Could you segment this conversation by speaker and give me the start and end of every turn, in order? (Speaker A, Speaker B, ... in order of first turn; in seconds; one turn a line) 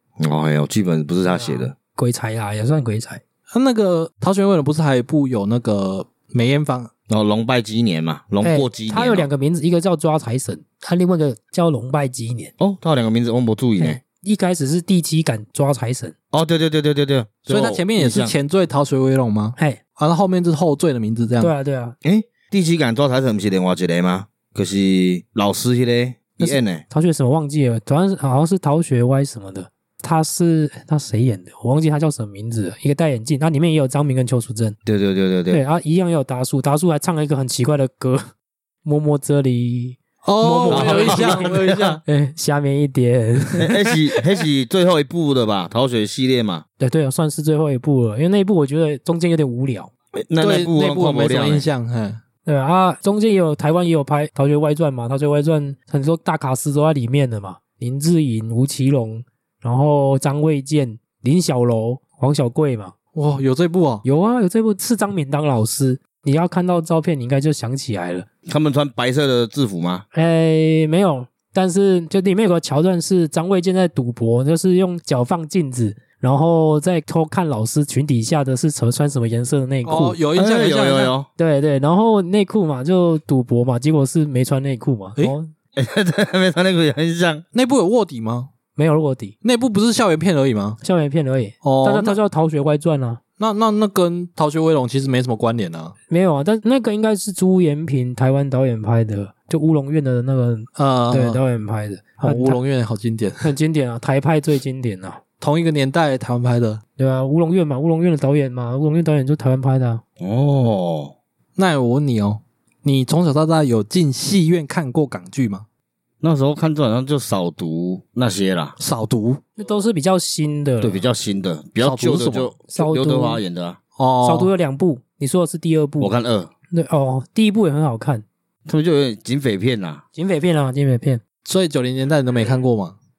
Speaker A: 0.2-1.7
Speaker B: 1.3-3.2
Speaker C: 3.5-6.9
Speaker A: 7.1-9.3
Speaker B: 8.4-12.5
Speaker A: 12.6-14.0
Speaker B: 13.8-16.1
Speaker A: 16.3-18.3
Speaker C: 17.5-21.5
Speaker B: 21.4-21.9
Speaker A: 22.0-26.8
Speaker B: 26.4-34.8
Speaker A: 34.9-35.6
Speaker B: 35.5-38.3
Speaker B: 38.8-43.9
Speaker C: 40.2-42.0
Speaker A: 40.7-42.0
Speaker A: 43.6-46.6
Speaker B: 46.8-49.9
Speaker A: 50.1-51.6
Speaker C: 50.4-52.2
Speaker B: 52.5-62.9
Speaker C: 63.1-64.0
Speaker B: 64.0-68.2
Speaker A: 68.5-70.0
Speaker B: 70.1-80.2
Speaker C: 79.8-81.1
Speaker A: 80.3-81.3
Speaker B: 81.4-85.5
Speaker A: 85.8-87.4
Speaker C: 87.5-88.5
Speaker B: 88.8-89.3
Speaker C: 89.4-90.8
Speaker B: 90.8-93.2
Speaker C: 91.6-92.2
Speaker C: 93.4-95.9
Speaker B: 96.1-102.6
Speaker C: 100.8-101.4
Speaker C: 102.2-103.5
Speaker B: 103.4-105.2
Speaker C: 105.4-106.8
Speaker B: 107.0-110.0
Speaker A: 110.2-111.1
Speaker C: 111.6-115.6
Speaker A: 116.2-118.8
Speaker C: 118.8-119.4
Speaker B: 119.6-121.0
Speaker A: 120.8-123.8
Speaker C: 121.8-122.5
Speaker B: 122.7-123.4
Speaker C: 124.0-124.5
Speaker B: 124.2-126.1
Speaker A: 126.0-126.5
Speaker B: 126.7-128.2
Speaker A: 128.7-130.0
Speaker B: 130.2-131.2
Speaker C: 131.4-132.9